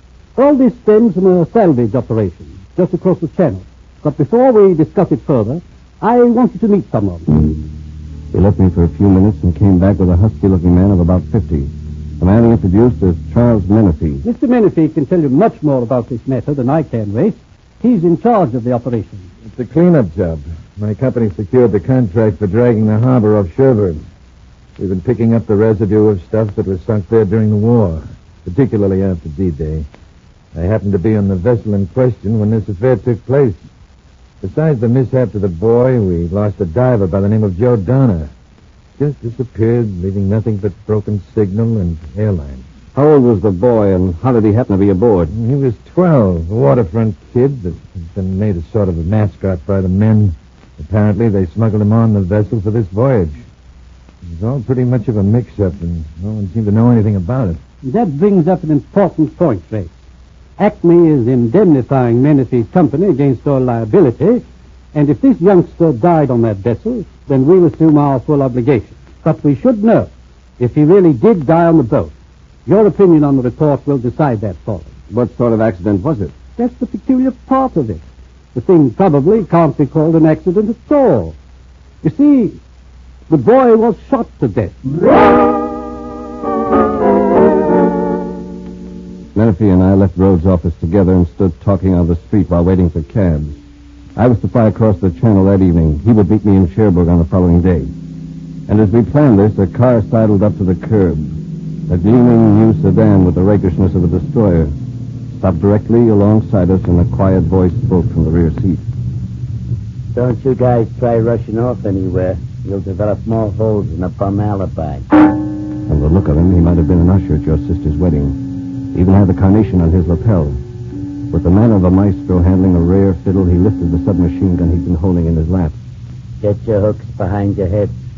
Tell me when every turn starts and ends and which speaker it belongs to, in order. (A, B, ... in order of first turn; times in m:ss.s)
0:00.4-0:07.5 A
0:08.3-0:14.3 B
0:14.2-0:19.3 A
0:19.5-0:24.0 C
0:24.8-0:29.9 C
0:30.6-0:33.6 C
0:34.4-0:38.3 C
0:39.0-0:42.6 C
0:43.0-0:45.3 B
0:45.3-0:53.4 C
0:54.3-0:57.6 C
0:57.8-0:59.9 A
1:00.6-1:12.1 A
1:12.7-1:14.9 A
1:15.1-1:16.4 B
1:16.6-1:18.0 A
1:18.5-1:21.4 A
1:22.0-1:22.6 A
1:23.3-1:24.8 A
1:29.4-1:33.6 B
1:34.2-1:37.9 B
1:38.7-1:41.3 B
1:41.9-1:44.7 B
1:45.3-1:48.8 B
1:50.1-1:55.1 D
1:55.9-1:58.4 B
1:58.9-2:00.6 B
2:01.3-2:05.8 B
2:06.4-2:07.9 D